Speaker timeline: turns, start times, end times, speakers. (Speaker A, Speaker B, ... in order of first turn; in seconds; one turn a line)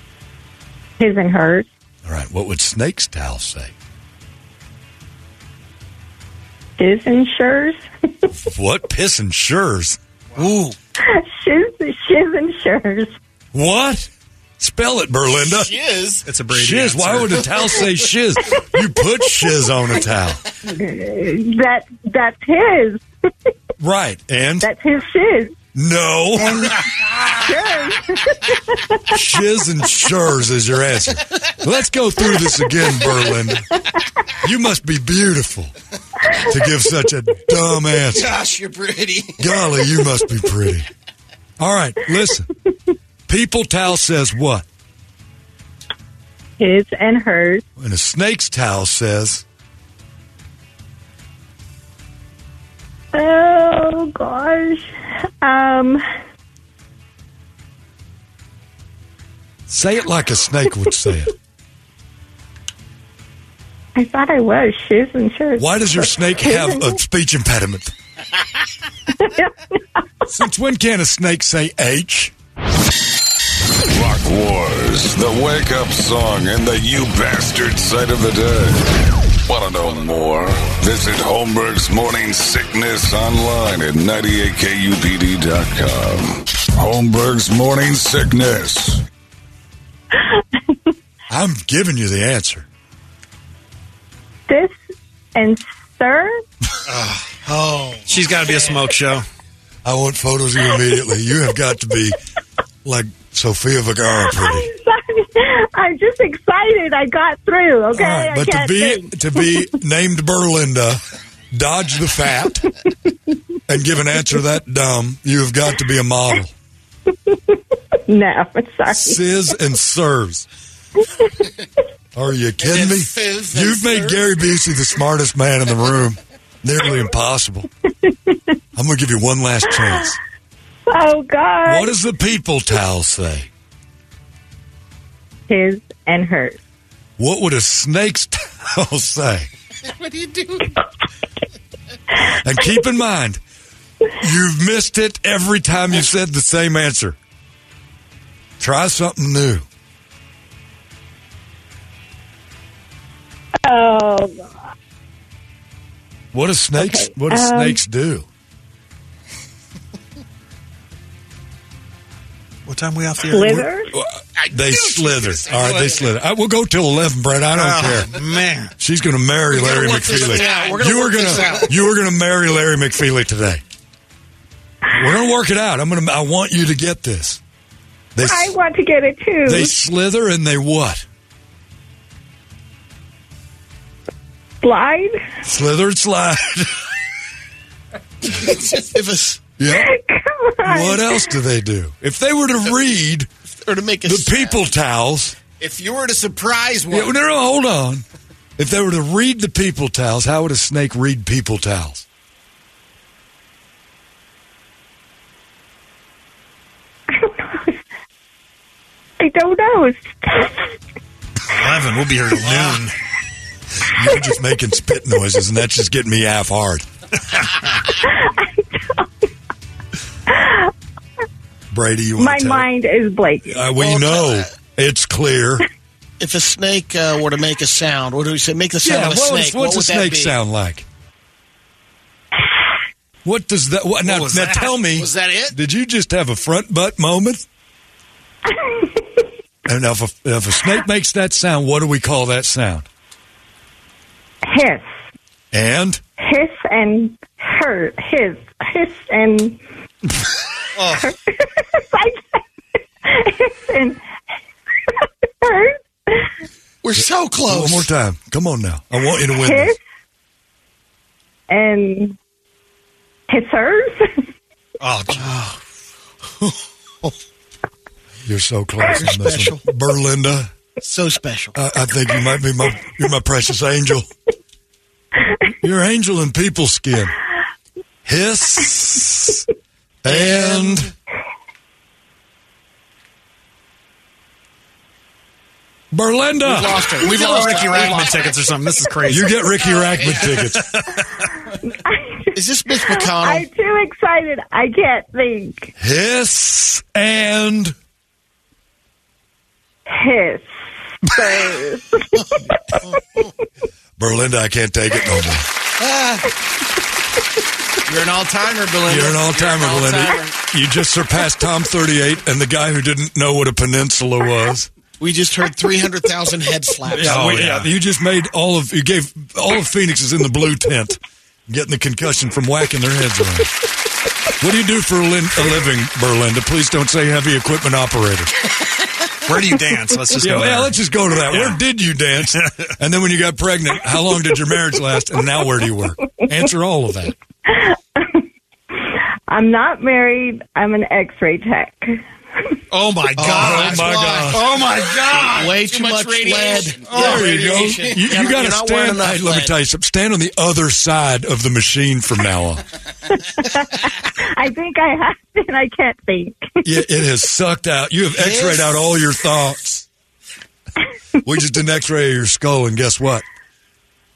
Speaker A: 1.0-1.7
Speaker B: 2.0-3.7
Speaker A: 6.8-8.3
Speaker B: 8.4-10.0
Speaker C: 10.3-10.8
Speaker A: 11.0-13.2
Speaker B: 13.5-15.8
Speaker C: 15.5-16.3
Speaker D: 16.2-17.5
Speaker B: 16.5-20.4
Speaker A: 20.7-23.0
Speaker B: 23.8-24.7
Speaker A: 24.6-25.6
Speaker B: 25.8-26.8
Speaker A: 26.4-26.8
Speaker A: 27.4-29.1
Speaker B: 29.1-33.7
Speaker A: 32.4-33.3
Speaker B: 34.4-35.8
Speaker B: 36.4-38.4
Speaker C: 38.1-39.4
Speaker B: 39.4-40.9
Speaker B: 41.6-42.5
Speaker B: 43.3-44.6
Speaker A: 46.6-47.6
Speaker B: 47.8-49.4
Speaker A: 53.1-56.0
Speaker B: 59.7-61.3
Speaker A: 64.0-67.0
Speaker B: 65.6-67.9
Speaker A: 69.2-69.6
Speaker B: 70.3-72.3
Speaker E: 73.9-78.8
Speaker E: 79.5-89.0
Speaker B: 91.3-92.7
Speaker A: 94.5-94.8
Speaker A: 95.3-96.4
Speaker C: 96.9-98.8
Speaker D: 98.1-99.3
Speaker B: 99.8-102.2
Speaker B: 102.8-104.7
Speaker A: 104.2-109.7
Speaker B: 107.9-111.0
Speaker B: 111.5-112.7
Speaker B: 113.7-116.5
Speaker A: 118.1-119.4
Speaker B: 118.9-120.5
Speaker B: 122.2-127.7
Speaker C: 122.6-124.3
Speaker A: 128.1-128.4
Speaker B: 128.8-130.2
Speaker A: 129.7-130.1
Speaker A: 130.9-132.0
Speaker B: 131.6-133.5
Speaker A: 135.5-136.6
Speaker B: 137.2-139.5
Speaker C: 139.9-140.6
Speaker B: 142.3-143.4
Speaker B: 144.2-147.2
Speaker B: 148.6-149.7
Speaker A: 153.6-154.5
Speaker B: 156.3-158.3
Speaker A: 156.8-157.8
Speaker D: 162.7-163.7
Speaker A: 163.2-163.9
Speaker B: 163.9-168.2
Speaker C: 164.4-166.1
Speaker D: 167.5-168.7
Speaker B: 168.8-173.6
Speaker C: 169.5-171.8
Speaker B: 174.9-177.4
Speaker B: 178.2-178.6
Speaker A: 178.2-179.8
Speaker B: 179.4-181.1
Speaker A: 184.6-185.2
Speaker B: 185.4-186.8
Speaker C: 188.3-189.4
Speaker B: 189.6-189.9
Speaker A: 189.7-191.4
Speaker B: 190.6-193.3
Speaker C: 193.6-194.6
Speaker B: 194.0-195.4
Speaker C: 195.6-197.1
Speaker B: 196.9-198.0
Speaker B: 198.6-202.1
Speaker A: 207.1-207.8
Speaker A: 209.2-210.7
Speaker D: 211.5-212.9
Speaker C: 212.4-212.8
Speaker B: 213.8-216.9
Speaker A: 217.9-219.1
Speaker A: 220.3-220.7
Speaker B: 221.7-222.7
Speaker A: 222.2-223.6
Speaker B: 223.4-225.7
Speaker C: 223.9-224.4
Speaker C: 226.2-230.4
Speaker B: 228.8-230.9
Speaker B: 233.2-237.4
Speaker C: 234.1-235.6
Speaker A: 238.6-238.9
Speaker B: 239.7-242.9
Speaker A: 244.4-244.9
Speaker B: 245.5-246.0
Speaker A: 246.2-249.6
Speaker C: 250.8-251.1
Speaker A: 251.0-252.4
Speaker A: 253.0-254.0
Speaker A: 255.4-256.3
Speaker C: 256.8-257.9
Speaker B: 257.0-259.8
Speaker A: 259.3-259.8
Speaker A: 261.5-262.2
Speaker A: 263.3-264.1
Speaker D: 264.9-265.4
Speaker C: 264.9-265.5
Speaker B: 268.2-270.5
Speaker C: 268.9-269.6
Speaker C: 270.8-271.6
Speaker B: 271.6-274.1
Speaker B: 275.6-277.2
Speaker B: 278.1-279.4
Speaker B: 280.0-280.9
Speaker C: 280.1-280.9
Speaker B: 285.9-287.6
Speaker C: 286.4-288.4
Speaker D: 287.0-289.4
Speaker B: 289.1-290.8
Speaker A: 291.7-295.7
Speaker C: 292.4-293.5
Speaker B: 295.8-297.8
Speaker A: 299.9-300.5
Speaker A: 301.1-303.3
Speaker B: 304.0-305.5
Speaker C: 305.8-306.3
Speaker C: 307.9-310.3
Speaker B: 308.9-314.7
Speaker C: 315.0-317.4
Speaker B: 316.9-323.5
Speaker D: 317.0-317.7
Speaker B: 324.4-328.3
Speaker D: 329.3-331.6
Speaker B: 330.2-337.1
Speaker A: 337.5-338.2
Speaker A: 338.8-342.0
Speaker D: 342.7-347.1
Speaker C: 343.1-349.5
Speaker B: 343.3-344.6
Speaker B: 346.9-352.6
Speaker A: 353.3-356.8
Speaker B: 356.6-359.9
Speaker C: 358.2-358.7
Speaker B: 361.2-363.2